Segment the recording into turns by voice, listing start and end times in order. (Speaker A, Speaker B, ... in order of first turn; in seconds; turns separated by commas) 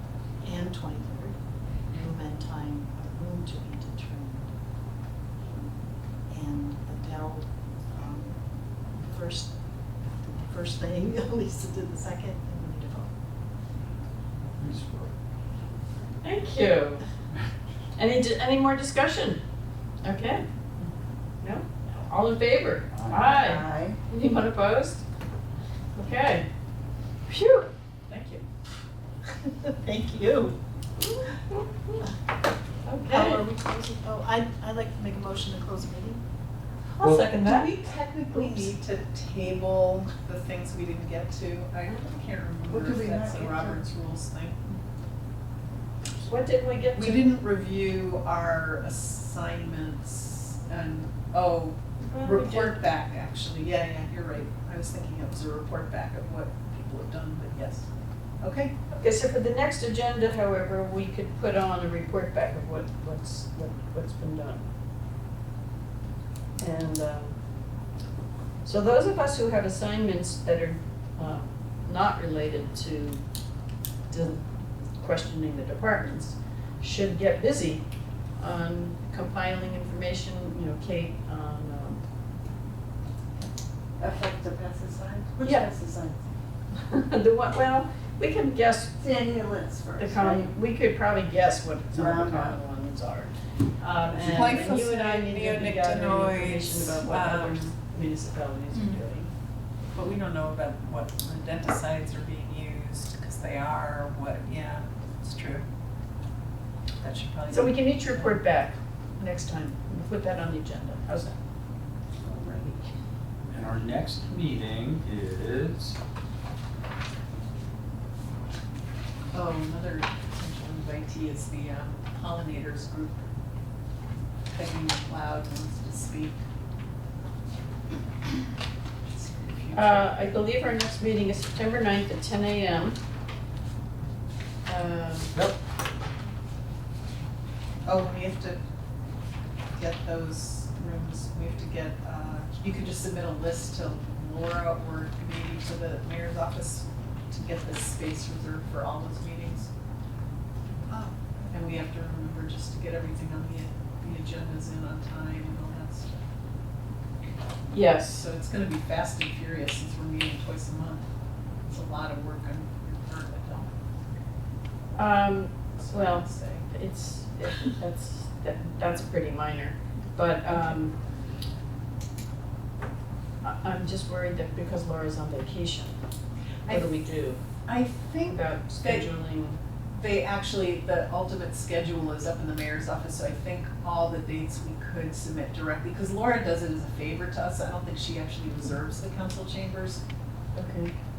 Speaker A: 0.4-1.4, Speaker A: 1.9-4.5, Speaker A: 6.3-8.4, Speaker A: 9.0-9.6, Speaker A: 10.2-13.1, Speaker B: 14.6-15.1, Speaker C: 16.2-17.0, Speaker C: 18.0-19.4, Speaker C: 20.0-20.4, Speaker C: 21.4-25.0, Speaker B: 22.9-23.3, Speaker D: 23.1-24.0, Speaker C: 25.9-26.5, Speaker C: 27.3-28.4, Speaker A: 29.4-30.6, Speaker C: 31.0-31.9, Speaker C: 32.9-33.4, Speaker A: 33.0-36.2, Speaker E: 37.0-44.6, Speaker B: 37.0-37.3, Speaker C: 37.0-37.7, Speaker C: 38.3-38.7, Speaker D: 42.7-43.8, Speaker C: 46.2-47.3, Speaker E: 47.0-57.9, Speaker C: 52.0-52.8, Speaker E: 58.4-58.7, Speaker C: 58.9-64.7, Speaker C: 66.6-67.3, Speaker C: 68.6-73.2, Speaker C: 74.1-74.4, Speaker C: 75.0-77.8, Speaker C: 78.4-82.0, Speaker D: 84.0-86.2, Speaker C: 85.4-85.7, Speaker C: 86.7-88.9, Speaker D: 89.0-90.5, Speaker C: 90.0-99.3, Speaker D: 91.9-92.6, Speaker E: 94.2-97.8, Speaker E: 98.7-99.0, Speaker E: 99.9-105.6, Speaker E: 107.0-108.4, Speaker C: 107.5-111.3, Speaker C: 112.3-112.8, Speaker B: 113.5-116.0, Speaker E: 119.3-123.1, Speaker E: 124.5-126.4, Speaker E: 129.0-130.3, Speaker C: 129.7-133.0, Speaker C: 134.7-135.3, Speaker E: 137.8-138.6, Speaker E: 139.8-149.7, Speaker E: 150.9-156.2, Speaker C: 157.7-158.2, Speaker E: 158.0-161.1, Speaker E: 161.7-163.7, Speaker C: 164.9-170.9, Speaker E: 165.8-166.7, Speaker C: 173.4-176.0, Speaker E: 176.7-177.0, Speaker C: 176.7-177.4, Speaker E: 177.6-179.1, Speaker C: 178.3-179.6, Speaker E: 179.9-190.0, Speaker C: 190.5-190.9